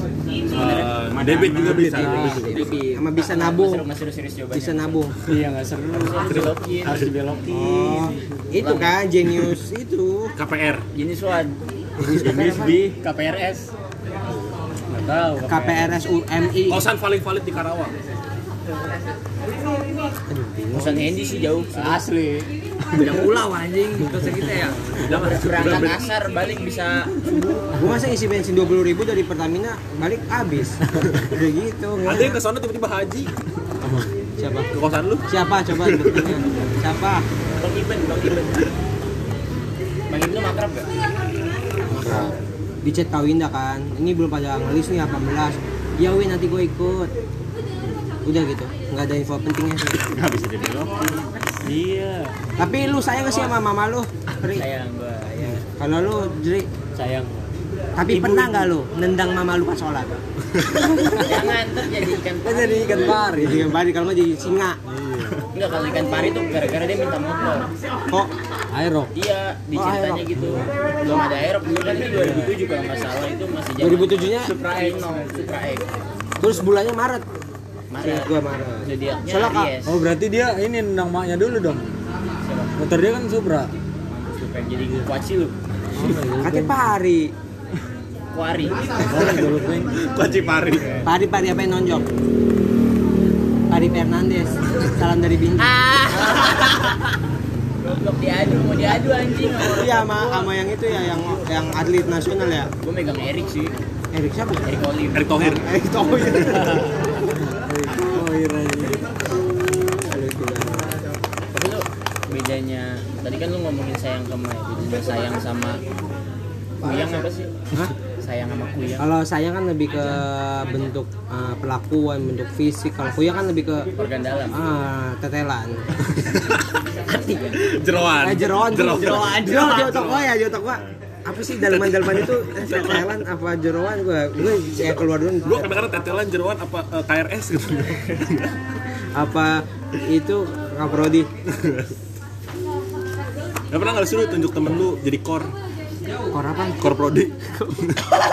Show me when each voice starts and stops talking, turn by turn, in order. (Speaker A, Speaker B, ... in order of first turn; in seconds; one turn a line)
Speaker A: 0.5-1.0
Speaker B: 0.5-2.7
Speaker C: 1.0-2.2
Speaker D: 1.6-3.9
Speaker E: 1.9-2.4
Speaker A: 2.5-9.0
Speaker F: 2.5-2.8
Speaker D: 4.5-5.1
Speaker B: 6.2-7.1
Speaker D: 7.5-10.3
Speaker E: 7.5-8.1
Speaker B: 10.4-10.8
Speaker A: 10.9-13.7
Speaker D: 12.0-12.9
Speaker A: 14.9-15.9
Speaker D: 15.4-16.9
Speaker B: 16.7-17.9
Speaker D: 20.3-21.1
Speaker A: 20.7-22.1
Speaker E: 21.8-22.5
Speaker F: 22.9-25.4
Speaker B: 25.0-26.1
Speaker A: 25.0-27.7
Speaker D: 27.8-32.4
Speaker B: 32.0-33.3
Speaker E: 33.8-34.1
Speaker D: 34.4-34.7
Speaker B: 34.7-36.3
Speaker D: 35.3-37.3
Speaker A: 37.6-38.7
Speaker A: 40.1-40.9
Speaker D: 41.9-47.1
Speaker D: 48.2-50.2
Speaker C: 50.0-51.2
Speaker A: 51.6-52.4
Speaker D: 52.6-54.7
Speaker A: 54.5-55.4
Speaker D: 55.3-56.7
Speaker A: 56.9-57.5
Speaker D: 58.0-60.1
Speaker A: 58.2-58.5
Speaker E: 61.0-61.4
Speaker A: 61.2-63.3
Speaker E: 62.4-63.7
Speaker D: 63.3-64.8
Speaker E: 64.9-65.4
Speaker A: 65.5-67.7
Speaker E: 68.7-69.1
Speaker A: 69.1-75.9
Speaker D: 69.7-70.4
Speaker E: 70.4-70.7
Speaker E: 72.2-72.5
Speaker D: 73.8-74.6
Speaker D: 76.4-77.2
Speaker A: 77.9-80.0
Speaker D: 78.0-79.7
Speaker E: 79.8-81.9
Speaker A: 82.4-82.8
Speaker E: 82.8-83.7
Speaker A: 84.1-85.6
Speaker E: 86.0-86.8
Speaker D: 86.4-87.3
Speaker A: 88.3-89.1
Speaker E: 89.1-90.0
Speaker B: 90.0-90.9
Speaker D: 91.0-92.1
Speaker D: 93.7-96.6
Speaker A: 95.6-97.0
Speaker A: 97.8-100.5
Speaker D: 99.7-102.7
Speaker A: 102.8-103.8
Speaker D: 104.1-104.8
Speaker A: 104.6-105.4
Speaker B: 105.1-105.7
Speaker D: 105.4-106.9
Speaker E: 107.5-109.1
Speaker D: 110.0-111.0
Speaker A: 111.5-115.8
Speaker A: 116.8-117.5
Speaker D: 116.8-117.1
Speaker A: 118.2-119.1
Speaker D: 119.0-123.9
Speaker A: 124.0-124.7
Speaker D: 124.5-125.8
Speaker B: 126.1-126.6
Speaker A: 127.1-127.6
Speaker B: 127.5-130.2
Speaker D: 128.2-135.8
Speaker F: 129.0-130.0
Speaker B: 131.6-133.1
Speaker B: 135.4-138.5
Speaker D: 139.2-141.3
Speaker B: 141.5-141.9
Speaker B: 143.7-145.5
Speaker D: 146.3-146.9
Speaker B: 146.8-148.0